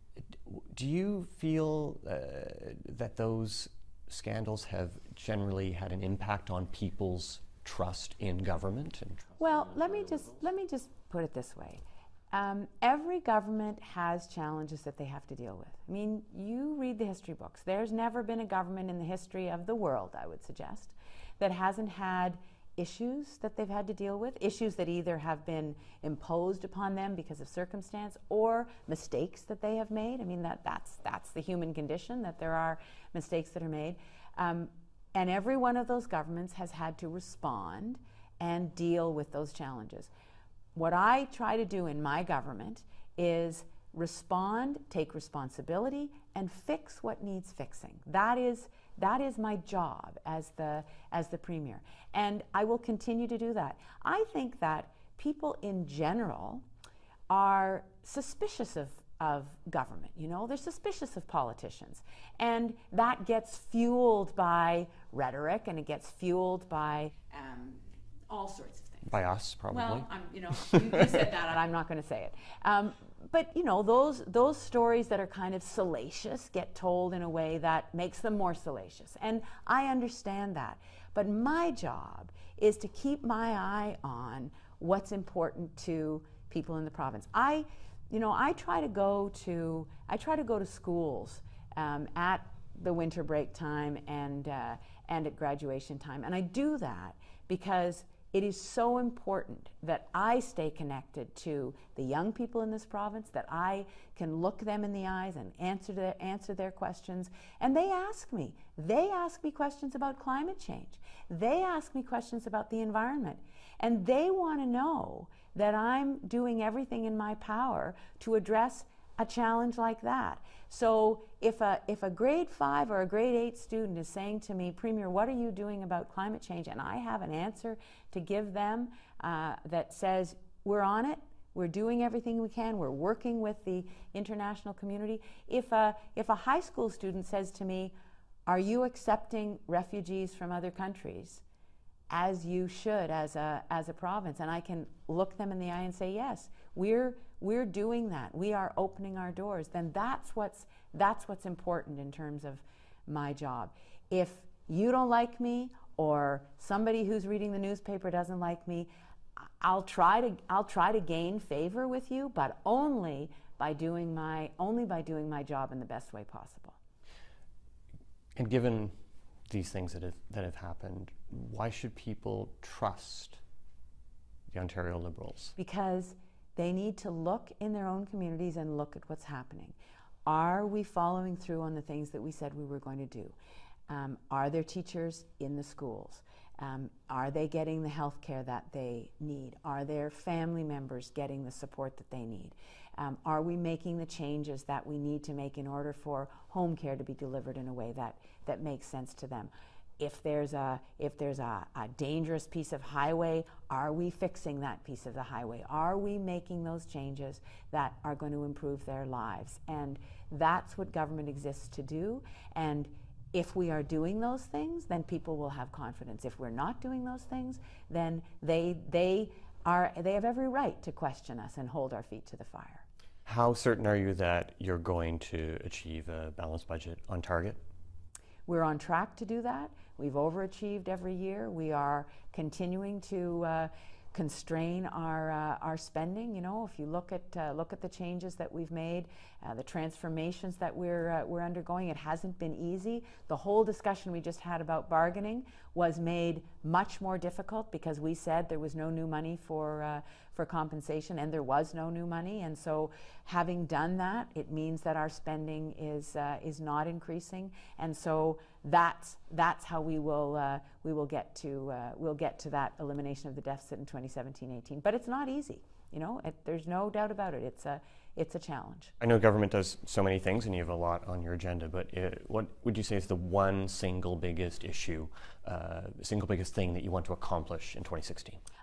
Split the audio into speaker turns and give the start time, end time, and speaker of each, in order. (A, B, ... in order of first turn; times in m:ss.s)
0:00.3-0:10.4 A
0:09.4-0:40.1 B
0:40.8-0:56.6 B
0:57.3-1:09.1 B
1:09.0-1:10.1 A
1:09.7-2:17.9 B
1:10.7-1:11.0 A
2:18.5-2:21.4 B
2:22.1-2:38.9 B
2:39.6-2:46.8 B
2:48.4-2:48.9 A
2:49.5-2:53.4 A
2:54.5-2:55.6 A
2:55.6-3:03.4 B
3:03.9-3:42.8 B
3:43.2-3:47.6 A
3:48.5-4:28.9 B
4:29.0-4:38.4 A